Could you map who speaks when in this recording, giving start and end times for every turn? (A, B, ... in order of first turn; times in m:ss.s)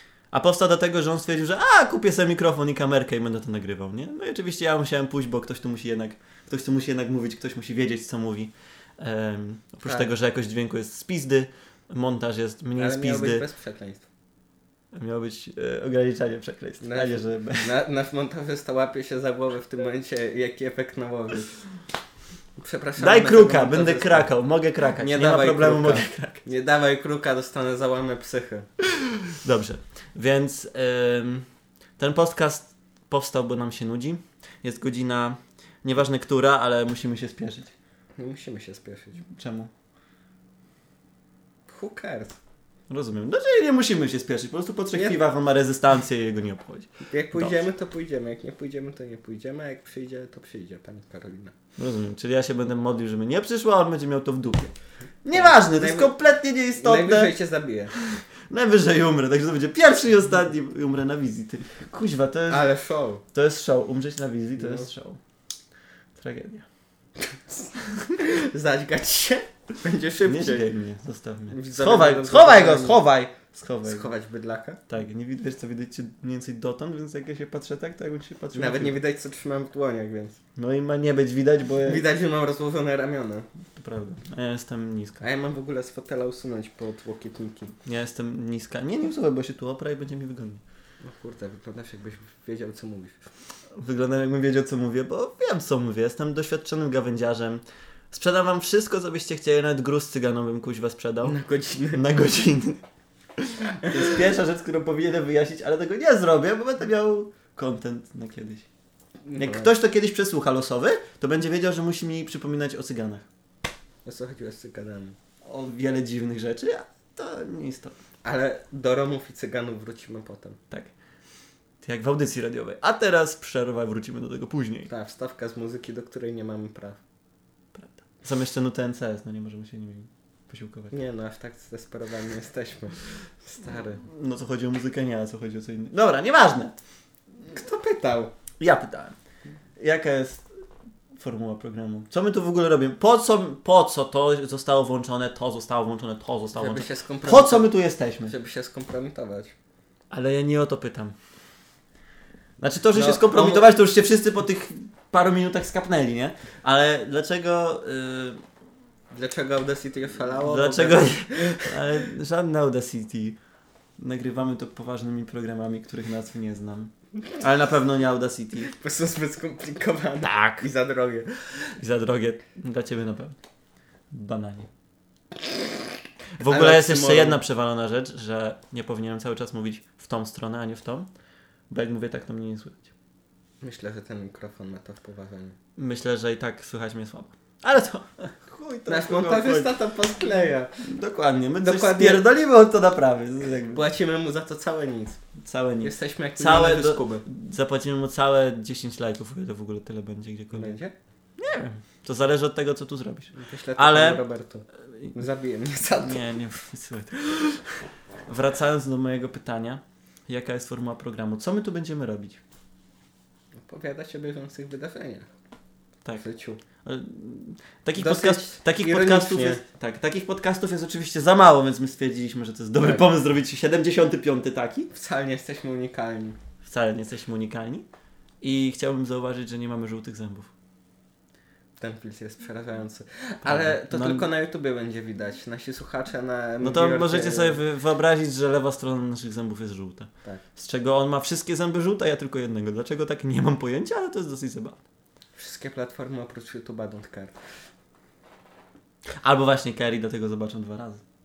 0:00.3-0:13.4 A
0:09.8-0:10.1 B
0:12.8-0:14.0 B
0:14.9-0:17.7 A
0:16.8-0:21.6 B
0:22.6-0:24.3 B
0:23.0-0:26.4 A
0:24.9-0:28.7 B
0:29.3-0:31.4 A
0:32.0-0:37.7 A
0:38.2-0:39.2 B
0:39.2-0:39.7 A
0:41.7-0:42.4 B
0:42.9-0:47.6 A
0:44.9-0:45.2 B
0:47.0-0:51.5 B
0:51.8-0:54.7 A
0:55.2-0:57.3 A
0:55.3-0:56.1 B
0:56.8-0:57.9 B
0:58.0-1:02.7 A
1:02.5-1:03.2 B
1:03.3-1:05.2 A
1:04.6-1:04.9 B
1:06.2-1:06.6 A
1:08.1-1:10.6 B
1:10.2-1:14.1 A
1:11.5-1:13.0 B
1:13.8-1:14.8 B
1:14.9-1:19.0 A
1:18.5-1:20.4 B
1:20.6-1:22.0 A
1:21.8-1:23.5 B
1:23.7-1:25.2 A
1:25.2-1:27.7 B
1:27.8-1:30.6 A
1:31.0-1:33.2 B
1:33.8-1:41.4 A
1:41.2-1:42.1 B
1:41.9-1:42.8 A
1:43.4-1:48.7 A
1:43.8-1:44.2 B
1:49.2-1:49.7 B
1:49.4-1:53.2 A
1:54.0-1:55.2 B
1:55.4-1:58.0 A
1:58.2-2:00.6 B
2:01.8-2:04.9 A
2:04.9-2:07.0 B
2:07.7-2:10.9 A
2:10.9-2:14.0 B
2:14.0-2:16.8 A
2:17.5-2:18.3 B
2:18.6-2:19.2 A
2:19.8-2:20.5 A
2:21.2-2:28.3 A
2:26.5-2:29.5 B
2:30.1-2:31.1 A
2:32.6-2:38.4 A
2:32.9-2:33.7 B
2:39.1-2:41.9 B
2:40.4-2:43.4 A
2:44.0-2:48.7 A
2:48.7-2:51.4 B
2:50.2-2:50.6 A
2:51.8-2:53.4 A
2:54.1-2:54.7 A
2:56.4-3:01.1 A
2:56.4-2:57.4 B
3:01.7-3:02.9 A
3:03.6-3:05.6 B
3:05.8-3:09.7 A
3:08.9-3:10.8 B
3:10.8-3:13.8 A
3:11.6-3:12.2 B
3:13.7-3:15.2 B
3:15.4-3:20.8 A
3:15.8-3:17.2 B
3:20.5-3:20.9 B
3:21.4-3:24.2 A
3:23.3-3:26.2 B
3:26.0-3:27.6 A
3:28.3-3:32.4 A
3:33.6-3:35.3 B
3:36.2-3:36.6 B
3:36.8-3:44.9 A
3:38.0-3:39.6 B
3:44.9-3:46.4 B
3:46.6-3:47.8 A
3:48.4-3:50.5 A
3:51.8-3:57.6 B
3:53.4-3:54.3 A
3:56.6-4:04.8 A
4:05.3-4:07.4 B
4:09.2-4:11.0 A